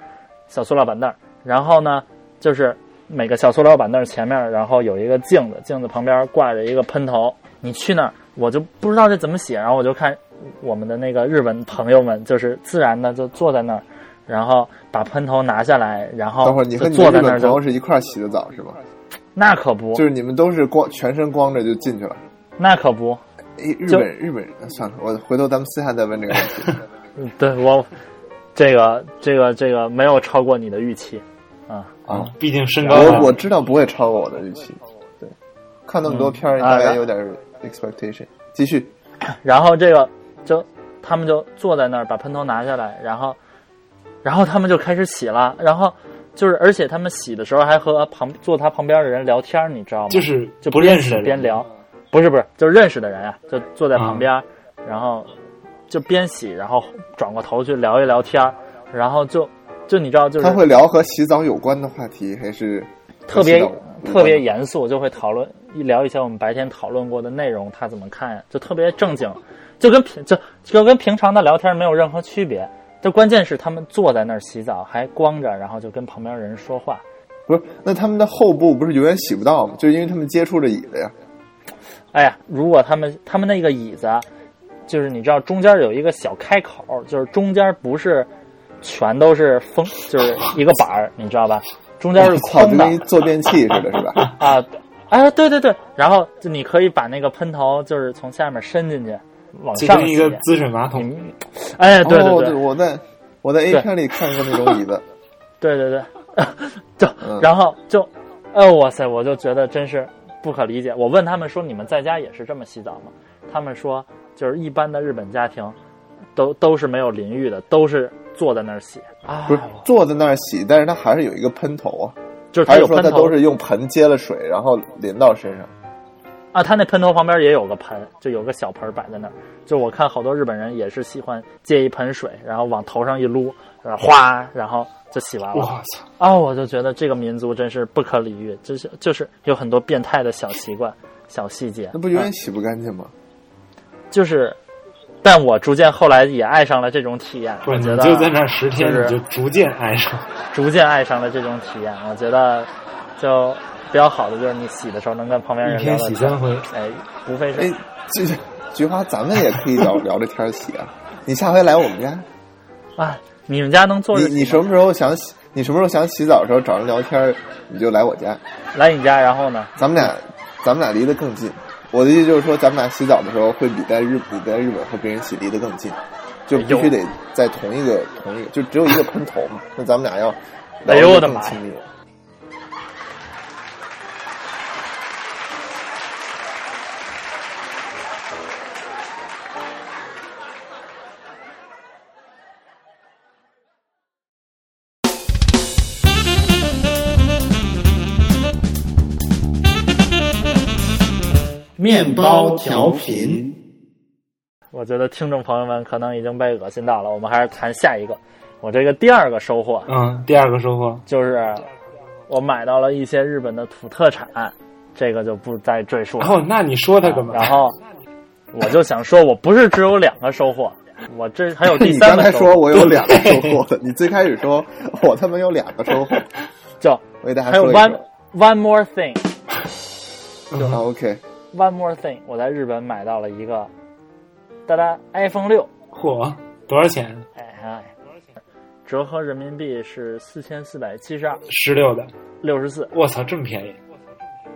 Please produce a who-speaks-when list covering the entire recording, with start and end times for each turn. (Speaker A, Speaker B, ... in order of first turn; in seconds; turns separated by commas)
Speaker A: 0.5-17.6, Speaker B: 16.4-18.8, Speaker A: 19.3-20.0, Speaker B: 19.9-22.2, Speaker A: 22.6-23.2, Speaker B: 23.6-26.8, Speaker A: 27.1-27.9, Speaker A: 28.5-32.0, Speaker B: 32.1-32.3, Speaker C: 32.1-33.3, Speaker A: 32.8-33.3, Speaker B: 32.9-35.3, Speaker B: 35.9-38.9, Speaker A: 36.0-37.0, Speaker A: 39.3-43.4, Speaker A: 44.2-55.3, Speaker C: 50.1-51.5, Speaker C: 53.9-54.3, Speaker A: 55.9-60.7, Speaker B: 60.4-64.4, Speaker A: 63.3-77.0, Speaker B: 77.5-81.1, Speaker A: 82.1-84.2, Speaker A: 84.9-88.3, Speaker A: 88.8-93.0, Speaker B: 92.2-94.2, Speaker A: 94.2-100.4, Speaker C: 99.7-101.1, Speaker A: 100.9-102.6, Speaker B: 102.0-105.0, Speaker A: 105.6-115.8, Speaker B: 107.2-107.5, Speaker A: 116.3-119.8, Speaker B: 119.5-125.7, Speaker A: 122.5-123.4, Speaker A: 126.5-142.3, Speaker C: 135.5-136.0, Speaker B: 141.9-143.1, Speaker A: 144.1-144.6, Speaker A: 145.2-149.2, Speaker C: 147.6-150.3, Speaker A: 150.5-157.7, Speaker C: 155.6-156.7, Speaker B: 157.5-162.2, Speaker A: 163.0-164.6, Speaker B: 164.1-168.4, Speaker A: 168.7-170.1, Speaker B: 169.8-181.9, Speaker A: 176.5-176.9, Speaker A: 180.8-181.6, Speaker A: 201.8-203.3, Speaker B: 201.9-203.5, Speaker A: 204.7-209.9, Speaker C: 209.9-211.0, Speaker A: 211.1-211.7, Speaker A: 212.3-216.4, Speaker C: 216.2-217.6, Speaker A: 217.0-217.8, Speaker A: 218.5-222.6, Speaker B: 221.6-226.3, Speaker C: 222.7-223.6, Speaker A: 226.8-229.3, Speaker B: 227.2-228.0, Speaker C: 230.5-230.8, Speaker B: 230.6-231.2, Speaker A: 231.5-233.7, Speaker A: 234.7-235.7, Speaker C: 235.9-237.2, Speaker A: 237.3-237.9, Speaker A: 238.8-241.4, Speaker C: 241.5-242.1, Speaker A: 242.4-242.9, Speaker C: 242.9-243.8